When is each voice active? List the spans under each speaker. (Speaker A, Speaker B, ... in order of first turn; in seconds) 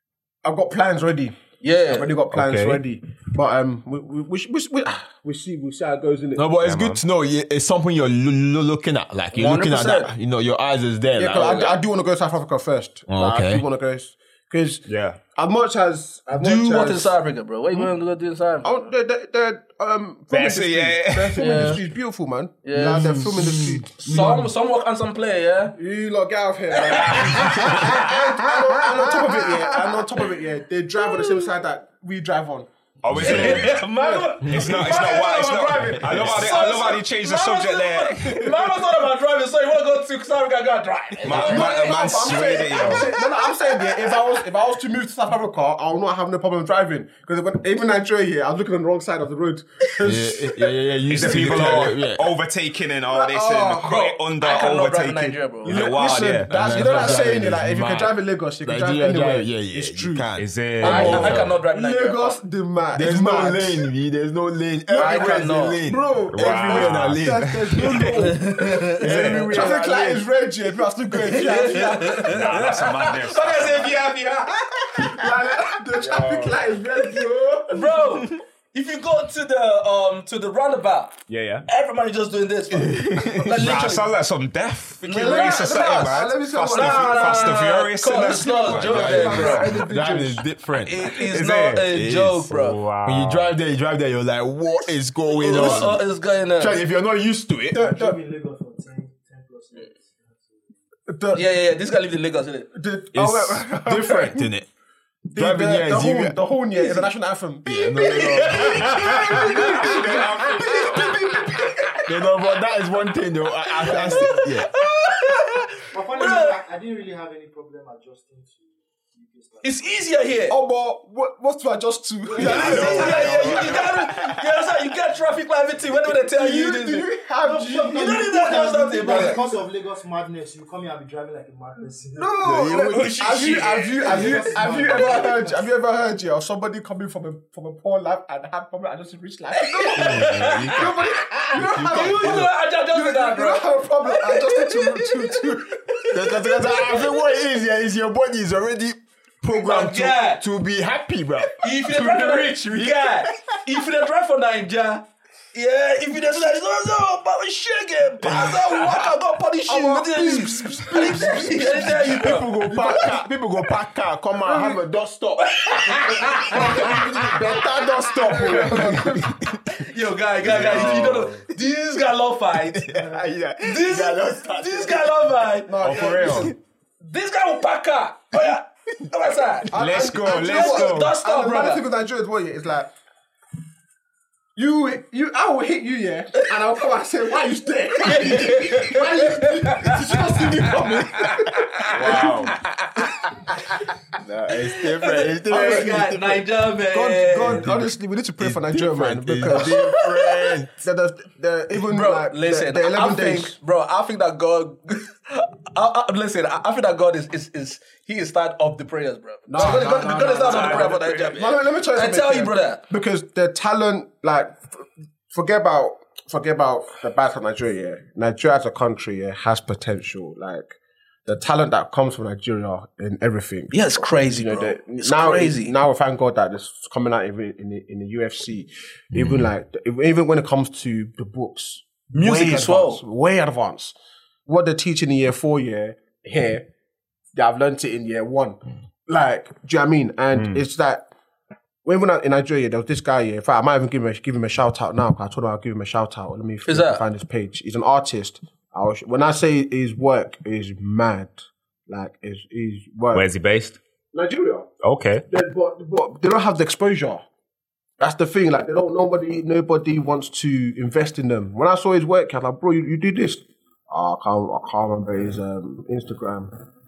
Speaker A: 0.4-6.5, 11.2-17.2, 18.6-24.4, 25.8-34.3, 41.3-52.0, 53.1-54.0, 55.6-60.3, 60.8-63.9, 64.9-72.4, 75.0-78.0, 85.1-87.6, 88.2-90.5, 95.5-95.8, 97.7-98.2, 101.1-101.5, 102.7-104.5, 105.3-112.1, 120.5-123.8, 126.2-128.3, 129.1-129.3, 132.2-146.4, 159.7-163.2, 164.4-164.8, 166.5-169.4, 175.7-176.5, 179.7-182.9, 184.6-192.6, 195.5-195.9, 196.9-200.0, 200.8-203.6, 209.5-220.7, 221.3-233.9, 234.5-236.7, 237.3-241.1, 241.8-253.2, 254.1-254.7, 255.3-257.2, 258.0-266.5
Speaker B: 1.6-2.1, 9.3-10.1, 16.3-18.9, 21.4-21.8, 22.6-23.3, 23.9-25.8, 26.7-29.6, 33.2-42.6, 53.8-55.9, 60.8-62.4, 65.0-65.8, 68.2-69.0, 71.2-75.2, 77.7-81.2, 81.7-84.1, 86.7-89.7, 90.8-92.8, 95.4-96.8, 101.3-102.7, 107.9-111.8, 113.8-116.6, 119.6-120.5, 122.4-127.1, 127.9-129.4, 132.7-135.3, 139.5-147.2, 149.6-150.4, 151.6-162.5, 165.6-167.0, 168.5-168.8, 169.7-172.9, 173.6-176.5, 177.0-179.7, 180.2-181.8, 188.0-190.4, 191.8-193.8, 194.6-197.7, 199.5-200.2, 201.8-212.8, 223.7-225.7, 232.1-233.0, 246.7-247.0
Speaker C: 2.3-2.8, 6.6-7.0, 14.9-15.2, 20.3-21.7, 27.0-28.1, 33.0-33.9, 34.4-38.5, 41.2-43.1, 51.1-57.2, 60.4-61.5, 66.3-68.2, 69.0-69.7, 72.2-74.2, 81.3-81.7, 83.5-89.7, 91.0-91.9, 92.5-93.5, 109.8-111.1, 122.4-124.2, 170.4-171.4, 175.8-176.5, 179.7-181.2, 209.6-211.4, 240.3-240.6, 253.1-253.8, 254.8-255.2
Speaker D: 6.4-11.8, 13.1-13.6, 23.1-24.5, 33.1-33.7, 34.4-34.8, 35.8-36.5, 41.1-41.8, 50.0-52.3, 56.2-61.6, 62.9-68.3, 68.9-70.2, 76.0-76.6, 82.7-83.8, 88.7-91.2, 91.9-96.0, 96.6-97.8, 103.2-104.7, 105.3-107.0, 107.7-110.2, 112.1-114.7, 122.7-123.4, 132.4-133.2, 139.9-141.0, 141.5-142.5, 146.1-153.6, 158.2-158.9, 161.0-169.6, 170.5-170.9, 172.7-175.3, 176.2-176.5, 191.9-192.6, 194.2-196.5, 197.4-200.7, 229.1-229.5
Speaker E: 97.8-100.8, 113.9-114.6, 115.9-120.0, 122.5-123.1, 127.4-132.6, 133.6-135.7